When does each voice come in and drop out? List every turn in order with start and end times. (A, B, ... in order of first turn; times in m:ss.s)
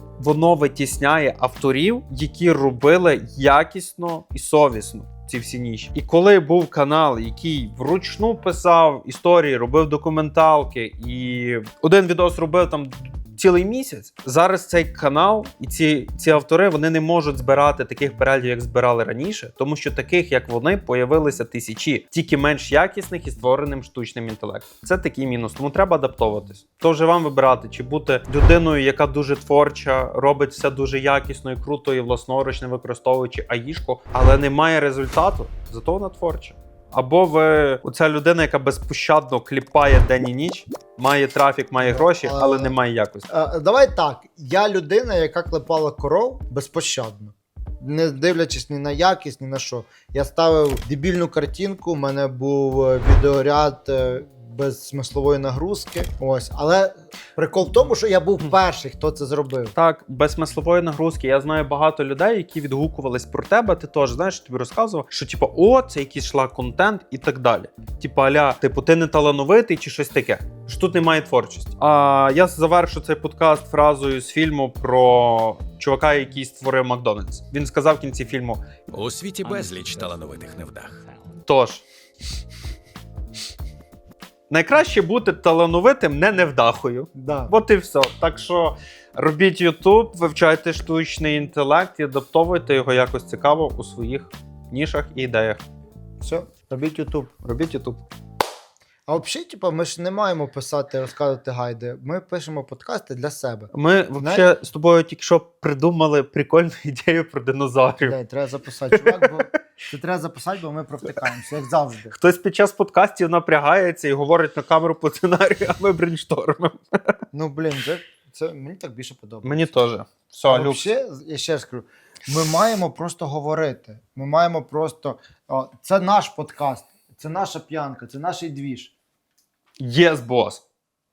0:00.2-0:43.3 A
0:41.8-0:42.7 B
0:43.3-0:59.7 B
0:59.7-1:18.6 A
1:18.9-1:21.0 C
1:21.5-1:21.8 A
1:24.5-1:35.6 A
1:27.1-1:27.5 B
1:36.2-1:37.3 B
1:37.4-1:38.0 A
1:39.1-1:44.5 B
1:43.7-1:48.2 A
1:48.0-1:52.1 B
1:49.0-1:49.5 A
1:52.1-1:57.2 A
1:57.3-1:59.8 B
1:59.4-2:00.9 A
2:00.5-2:08.9 B
2:09.8-2:10.6 A